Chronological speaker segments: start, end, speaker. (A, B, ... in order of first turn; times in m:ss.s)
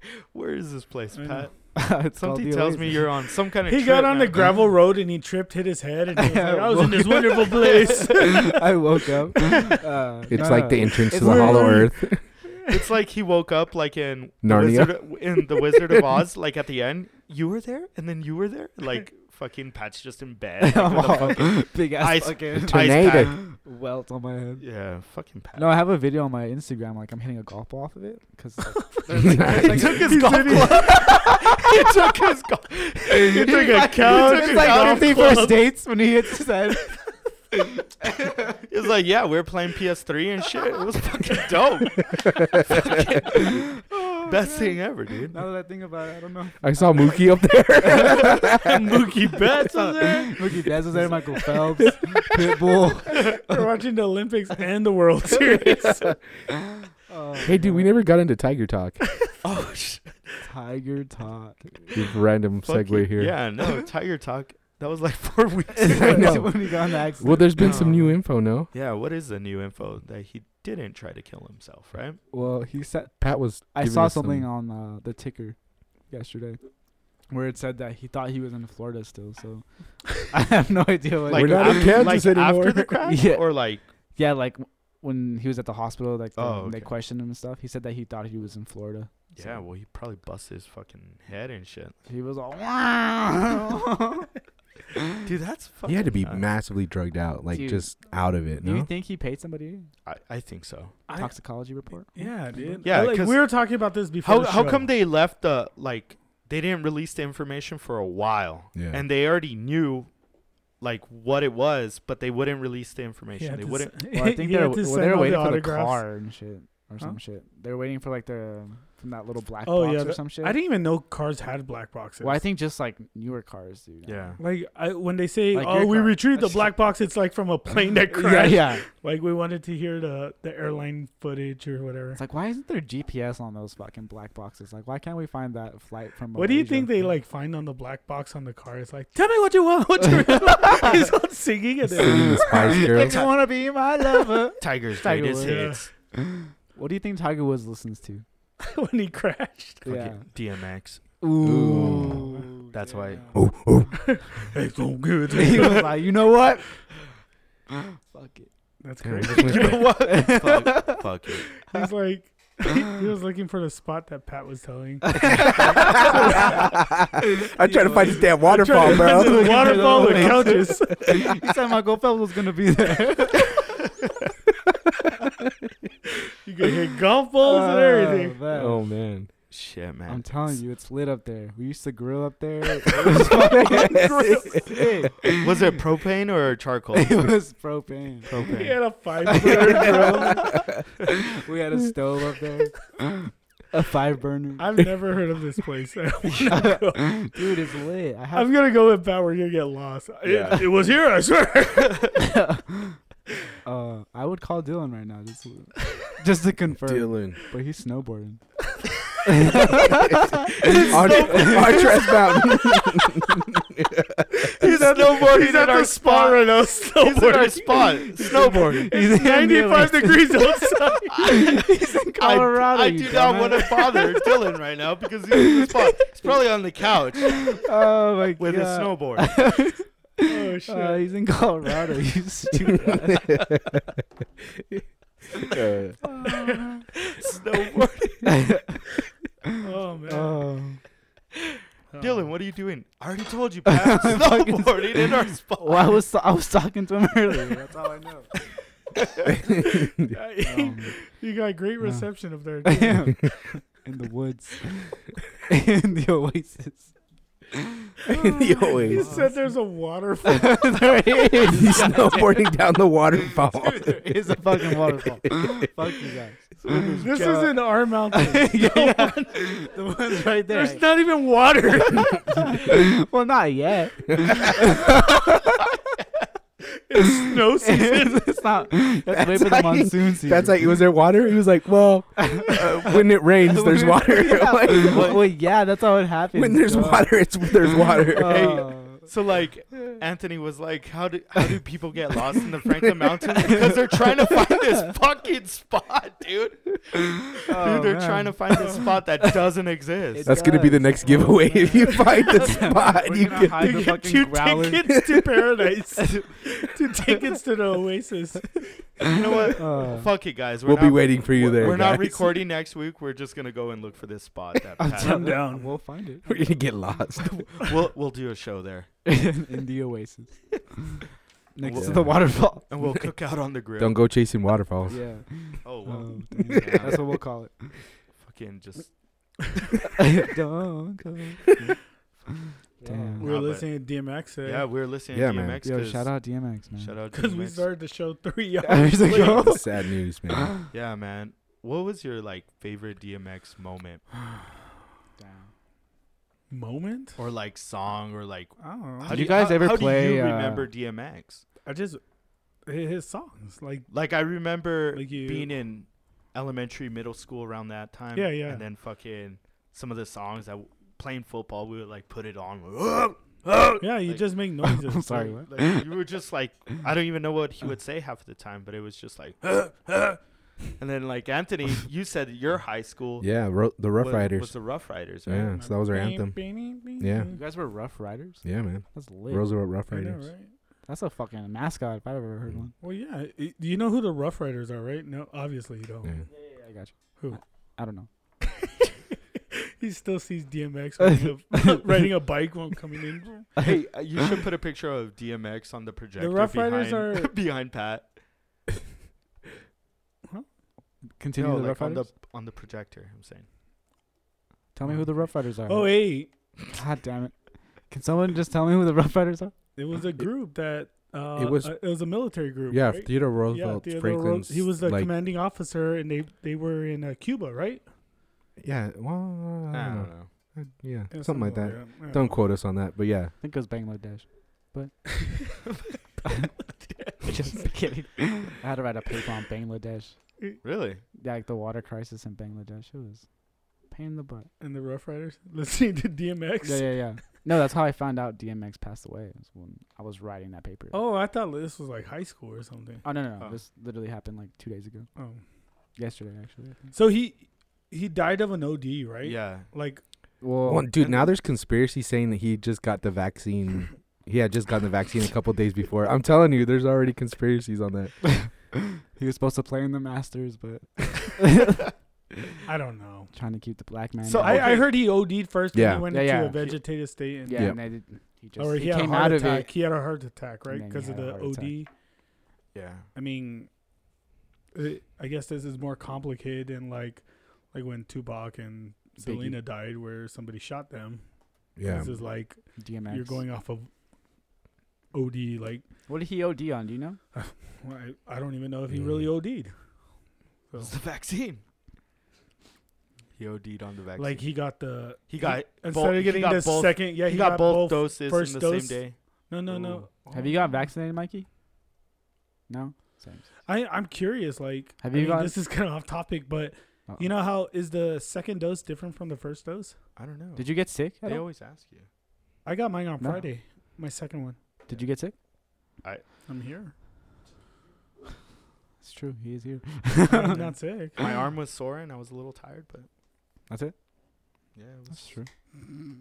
0:00.3-0:04.5 A
0:01.2-0:01.5 B
0:01.7-0:03.1 C
0:03.7-0:08.6 B
0:06.2-0:11.9 C
0:10.3-0:12.2 D
0:11.2-0:11.9 B
0:12.5-0:12.8 B
0:12.7-0:23.4 A
0:14.4-0:15.2 D
0:20.6-0:24.7 C
0:22.7-0:23.3 D
0:24.6-0:25.8 A
0:25.6-0:32.1 C
0:29.2-0:30.0 D
0:29.5-0:35.6 A
0:29.7-0:31.0 B
0:33.1-0:37.0 C
0:33.1-0:35.7 B
0:38.0-0:38.4 C
0:38.6-0:42.2 A
0:42.2-0:42.6 D
0:42.7-0:43.7 A
0:42.8-0:44.8 C
0:44.2-0:45.4 A
0:45.3-0:48.4 C
0:46.6-0:49.0 D
0:48.5-0:52.0 B
0:49.5-0:53.5 C
0:53.1-0:56.2 B
0:57.1-0:57.9 C
0:57.4-0:59.0 D
0:59.4-1:00.2 A
1:00.4-1:02.0 C
1:01.9-1:03.4 D
1:02.6-1:06.5 A
1:05.7-1:08.0 C
1:05.9-1:06.6 D
1:07.2-1:08.7 D
1:07.6-1:08.2 A
1:08.7-1:12.2 A
1:12.3-1:13.2 C
1:13.2-1:14.5 D
1:13.7-1:15.6 C
1:16.1-1:16.6 C
1:17.3-1:21.9 C
1:21.3-1:23.8 A
1:21.3-1:22.8 D
1:21.8-1:22.9 B
1:23.0-1:23.5 C
1:24.2-1:29.6 C
1:26.4-1:26.9 A
1:29.4-1:32.0 A
1:32.1-1:34.3 C
1:35.2-1:36.4 A
1:35.9-1:38.9 D
1:37.5-1:37.9 C
1:38.6-1:39.9 C
1:40.1-1:40.9 A
1:41.1-1:41.4 B
1:41.1-1:42.9 C
1:42.1-1:44.9 B
1:42.8-1:43.5 A
1:44.2-1:50.1 A
1:48.8-1:49.0 D
1:50.8-1:53.9 A
1:53.4-1:56.0 B
1:54.1-2:00.6 C
1:59.6-2:02.4 B
2:02.2-2:04.4 C
2:04.0-2:04.4 A
2:04.4-2:12.2 B
2:05.5-2:06.7 C
2:08.1-2:08.8 C
2:12.2-2:16.9 C
2:16.4-2:22.9 B
2:20.2-2:21.0 C
2:22.0-2:23.3 D
2:22.2-2:25.6 C
2:24.6-2:25.9 A
2:25.4-2:25.8 B
2:26.8-2:28.2 C
2:28.6-2:29.9 B
2:29.8-2:30.2 C
2:29.9-2:31.0 A
2:31.2-2:33.2 C
2:31.4-2:32.4 D
2:32.7-2:33.3 A
2:33.3-2:34.2 D
2:34.1-2:36.0 B
2:35.3-2:36.8 C
2:38.1-2:38.5 C
2:38.8-2:39.9 B
2:39.0-2:39.9 D
2:39.4-2:41.5 A
2:39.6-2:41.1 C
2:41.7-2:46.6 B
2:45.0-2:46.7 C
2:45.6-2:50.5 D
2:47.5-2:53.6 C
2:48.4-2:51.3 B
2:56.4-2:58.4 B
2:57.4-2:58.8 C
2:58.5-2:59.3 D
2:59.5-3:00.5 A
3:00.1-3:05.4 C
3:03.0-3:03.4 A
3:03.1-3:04.6 D
3:04.0-3:04.4 B
3:05.3-3:07.3 A
3:06.9-3:08.3 C
3:08.3-3:08.8 A
3:08.5-3:10.6 B
3:09.2-3:14.8 C
3:14.6-3:17.3 B
3:16.4-3:18.5 C
3:18.3-3:22.3 B
3:20.2-3:20.6 D
3:22.2-3:23.0 C
3:23.6-3:28.4 C
3:26.8-3:27.4 D
3:29.2-3:32.4 C
3:30.6-3:32.1 B
3:30.6-3:34.5 D
3:30.9-3:31.9 A
3:34.4-3:41.4 B
3:34.6-3:38.9 A
3:38.2-3:44.3 C
3:41.2-3:41.5 A
3:42.2-3:47.6 A
3:45.4-3:45.7 C
3:47.2-3:53.5 C
3:48.4-3:49.4 A
3:50.3-3:51.1 B
3:53.3-3:53.6 D
3:55.5-3:56.0 D
3:56.0-3:56.8 C
3:57.0-3:58.4 A
3:58.2-3:58.8 C
3:59.6-4:00.4 B
4:00.1-4:00.8 C
4:01.9-4:02.3 B
4:02.0-4:06.0 A
4:03.7-4:08.3 C
4:09.4-4:10.1 D
4:09.6-4:13.3 B
4:10.4-4:10.9 C
4:11.8-4:12.1 C
4:12.6-4:16.9 C
4:18.1-4:19.1 D
4:18.1-4:19.2 C
4:18.8-4:20.9 B
4:18.9-4:19.3 A
4:20.2-4:22.5 C
4:21.5-4:24.2 D
4:23.5-4:30.8 C
4:25.2-4:25.7 D
4:26.6-4:27.5 A
4:27.0-4:29.7 B
4:30.5-4:32.5 B
4:32.3-4:35.4 C
4:36.7-4:38.3 B
4:37.5-4:40.6 C
4:39.1-4:45.2 D
4:42.2-4:47.1 C
4:44.8-4:45.2 A
4:46.3-4:48.5 D
4:47.9-4:49.0 C
4:48.2-5:00.3 A
4:57.4-4:59.3 C
5:00.1-5:04.9 C
5:00.3-5:03.8 D
5:03.5-5:08.8 B
5:04.9-5:05.5 D
5:06.0-5:06.3 C
5:09.0-5:15.4 A
5:09.6-5:10.1 C
5:10.6-5:12.2 D
5:11.6-5:12.0 C
5:14.8-5:16.3 C
5:14.9-5:15.7 B
5:16.2-5:17.5 D
5:17.6-5:18.9 A
5:19.1-5:21.0 C
5:21.6-5:22.7 C
5:21.6-5:24.0 A
5:21.7-5:22.2 D
5:23.8-5:25.0 D
5:24.9-5:27.7 C
5:25.6-5:27.1 A
5:28.2-5:28.9 A
5:30.0-5:31.7 C
5:32.8-5:33.3 C
5:33.2-5:34.7 B
5:33.2-5:33.7 A
5:34.4-5:36.1 A
5:35.1-5:35.6 D
5:35.6-5:36.9 C
5:36.8-5:37.7 A
5:37.1-5:39.6 B
5:38.6-5:39.7 C
5:39.1-5:40.5 D
5:40.7-5:44.0 A
5:45.2-5:45.5 C
5:46.5-5:47.2 B
5:47.2-5:51.4 A
5:48.6-5:49.2 B
5:49.1-5:50.7 C
5:51.6-5:52.0 B
5:52.7-5:53.9 B
5:53.9-6:04.2 A
5:54.9-5:55.5 B
5:58.2-5:58.6 B
6:03.8-6:05.4 B
6:04.6-6:05.8 C
6:05.5-6:10.2 A
6:10.8-6:13.3 A
6:13.2-6:14.5 D
6:13.9-6:15.6 A
6:15.3-6:16.4 D
6:15.5-6:17.4 B
6:17.0-6:17.3 D
6:17.3-6:19.5 C
6:18.4-6:20.3 D
6:19.9-6:20.5 B
6:20.9-6:22.7 C
6:22.8-6:26.1 B
6:26.3-6:28.1 C
6:29.5-6:33.5 B
6:31.0-6:32.0 C
6:33.6-6:33.8 C
6:33.6-6:38.1 A
6:36.2-6:37.3 B
6:41.2-6:42.1 C
6:41.4-6:43.5 A
6:44.8-6:46.0 C
6:45.7-6:46.3 B
6:46.7-6:47.4 C
6:47.9-6:49.5 C
6:49.8-6:57.8 B
6:51.4-6:51.7 D
6:52.7-6:55.1 D
6:58.6-7:03.3 D
6:59.7-7:00.3 A
7:01.1-7:02.4 B
7:03.4-7:05.4 C
7:06.2-7:06.5 C
7:07.2-7:10.2 C
7:10.6-7:11.0 A
7:11.2-7:13.3 C
7:13.9-7:14.5 C
7:14.6-7:17.0 B
7:16.6-7:21.0 C
7:20.9-7:23.0 B
7:23.0-7:25.1 C
7:25.2-7:25.4 B
7:26.0-7:26.9 C
7:26.9-7:30.0 B
7:29.2-7:29.7 A
7:30.4-7:30.9 C
7:30.7-7:38.2 D
7:38.2-7:38.5 C
7:39.0-7:41.9 C
7:42.6-7:43.3 B
7:43.3-7:44.7 C
7:44.2-7:44.9 A
7:44.4-7:47.7 B
7:45.7-7:46.1 D
7:46.1-7:46.8 C
7:47.4-7:49.7 C
7:48.6-7:51.9 B
7:50.7-7:51.8 C
7:52.8-7:53.1 A
7:53.2-7:53.7 B
7:54.7-8:01.2 B
7:59.2-7:59.6 C
8:01.8-8:02.1 D
8:01.8-8:03.9 B
8:02.8-8:03.4 C
8:05.1-8:05.8 B
8:06.1-8:07.2 C
8:07.3-8:09.7 B
8:08.9-8:09.3 D
8:10.8-8:11.6 A
8:13.4-8:14.4 A
8:14.2-8:20.1 B
8:15.3-8:19.2 A
8:19.7-8:20.0 A
8:20.3-8:21.5 C
8:22.7-8:23.5 C
8:23.7-8:30.0 B
8:25.0-8:25.5 C
8:30.2-8:30.7 A
8:30.6-8:31.4 C
8:31.2-8:32.1 A
8:32.6-8:34.6 B
8:33.2-8:33.4 C
8:34.9-8:35.4 C
8:36.5-8:36.9 B
8:39.0-8:40.7 C
8:40.3-8:41.2 B
8:41.2-8:43.1 A
8:43.7-8:44.0 C
8:44.8-8:45.3 A
8:45.1-8:45.5 C